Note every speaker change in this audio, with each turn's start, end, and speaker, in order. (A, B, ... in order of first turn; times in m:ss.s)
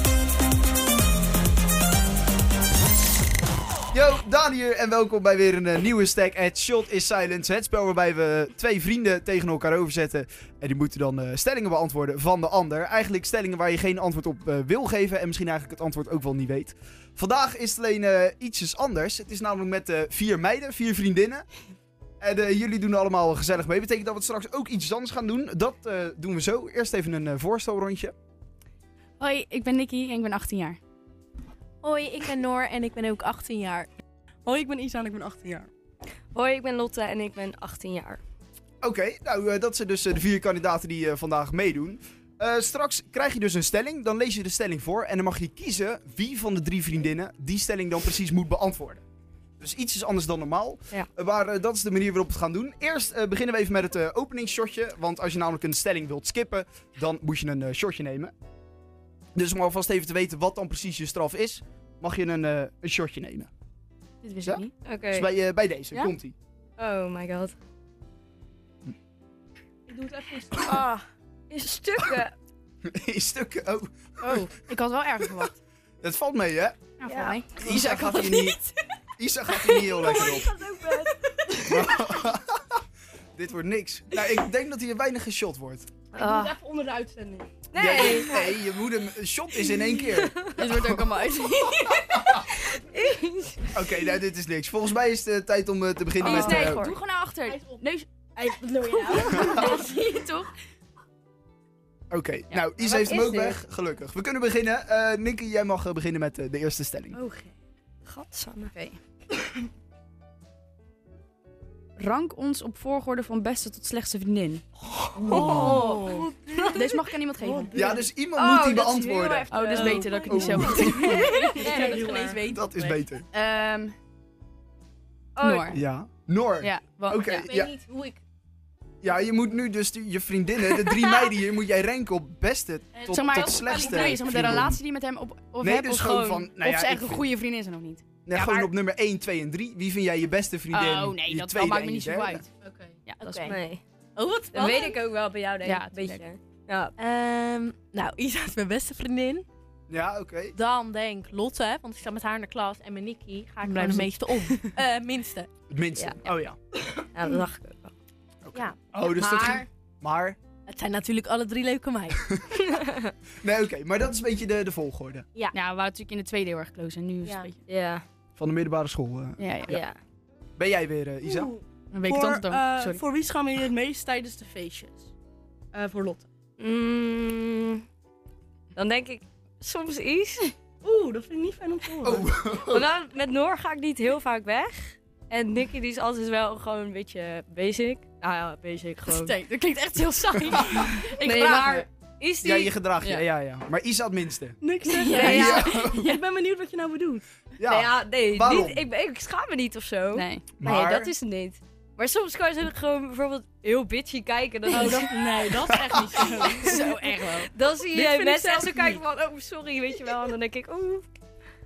0:03.9-0:21.5 A
0:22.2-0:28.1 A
0:29.2-0:30.8 B
0:31.8-0:33.9 C
0:34.4-0:35.7 D
0:36.3-0:38.2 E
0:38.8-0:49.0 A
0:49.6-0:58.3 A
0:59.3-1:03.5 A
1:04.2-1:04.7 B
1:04.4-1:06.3 A
1:04.8-1:05.3 E
1:06.8-1:07.5 E
1:09.9-1:10.8 D
1:10.6-1:11.0 B
1:11.5-1:12.3 E
1:12.8-1:14.5 A
1:14.7-1:15.6 B
1:15.2-1:15.5 C
1:16.0-1:16.8 A
1:17.0-1:17.9 B
1:17.1-1:17.4 E
1:17.6-1:18.6 A
1:17.8-1:18.5 C
1:19.2-1:20.6 A
1:19.7-1:21.8 E
1:21.6-1:22.8 A
1:23.3-1:25.9 A
1:26.1-1:26.5 E
1:26.2-1:26.5 B
1:26.2-1:27.6 D
1:27.7-1:28.6 E
1:27.7-1:31.0 A
1:29.6-1:30.7 E
1:30.6-1:32.4 B
1:32.1-1:32.4 A
1:32.5-1:33.8 E
1:33.7-1:37.0 A
1:36.2-1:40.5 B
1:36.3-1:36.8 E
1:37.4-1:37.8 C
1:38.7-1:39.8 C
1:39.3-1:39.8 A
1:42.1-1:47.2 A
1:42.8-1:43.6 E
1:47.1-1:47.5 E
1:48.0-1:48.7 E
1:48.6-1:49.0 B
1:52.0-1:54.6 B
1:55.1-1:55.9 A
1:55.2-1:56.3 E
1:55.3-1:58.0 D
1:55.5-1:56.2 C
1:56.5-1:57.9 B
1:57.7-1:59.5 A
1:58.3-2:01.9 E
1:59.5-2:01.8 B
1:59.7-2:02.5 D
2:00.2-2:01.3 A
2:01.1-2:03.0 C
2:02.5-2:03.2 A
2:03.3-2:03.9 B
2:05.4-2:05.7 E
2:05.4-2:05.8 B
2:05.7-2:07.7 A
2:06.6-2:07.5 B
2:07.4-2:08.2 C
2:09.0-2:14.8 A
2:13.0-2:14.1 C
2:13.1-2:18.6 B
2:15.6-2:17.3 A
2:18.2-2:22.4 A
2:20.7-2:22.5 B
2:22.6-2:23.6 C
2:23.0-2:23.6 B
2:23.4-2:23.8 E
2:24.2-2:25.0 C
2:24.5-2:26.9 E
2:25.6-2:26.2 B
2:27.0-2:29.4 C
2:29.9-2:30.6 A
2:30.5-2:35.5 C
2:33.6-2:34.8 B
2:35.7-2:36.6 A
2:36.0-2:36.3 E
2:37.1-2:37.9 E
2:38.4-2:40.4 A
2:38.5-2:39.7 C
2:40.7-2:42.2 C
2:42.7-2:43.1 E
2:43.4-2:45.2 A
2:45.5-2:47.6 B
2:47.7-2:48.0 E
2:48.4-2:49.8 A
2:49.4-2:49.8 B
2:49.7-2:50.0 E
2:50.6-2:51.5 A
2:51.2-2:55.1 D
2:51.9-2:53.0 B
2:55.7-2:56.3 D
2:56.6-2:57.8 E
2:58.7-3:00.5 E
3:00.8-3:02.3 D
3:02.0-3:02.9 A
3:02.7-3:09.3 E
3:09.1-3:11.8 B
3:10.6-3:10.9 A
3:11.2-3:12.7 E
3:12.4-3:14.6 A
3:14.6-3:17.2 D
3:14.8-3:15.5 B
3:15.1-3:15.9 E
3:15.1-3:16.2 A
3:17.6-3:18.9 A
3:17.6-3:25.5 E
3:20.1-3:20.4 B
3:20.6-3:21.1 A
3:24.7-3:26.8 D
3:26.5-3:27.5 B
3:26.7-3:31.1 E
3:27.9-3:29.0 D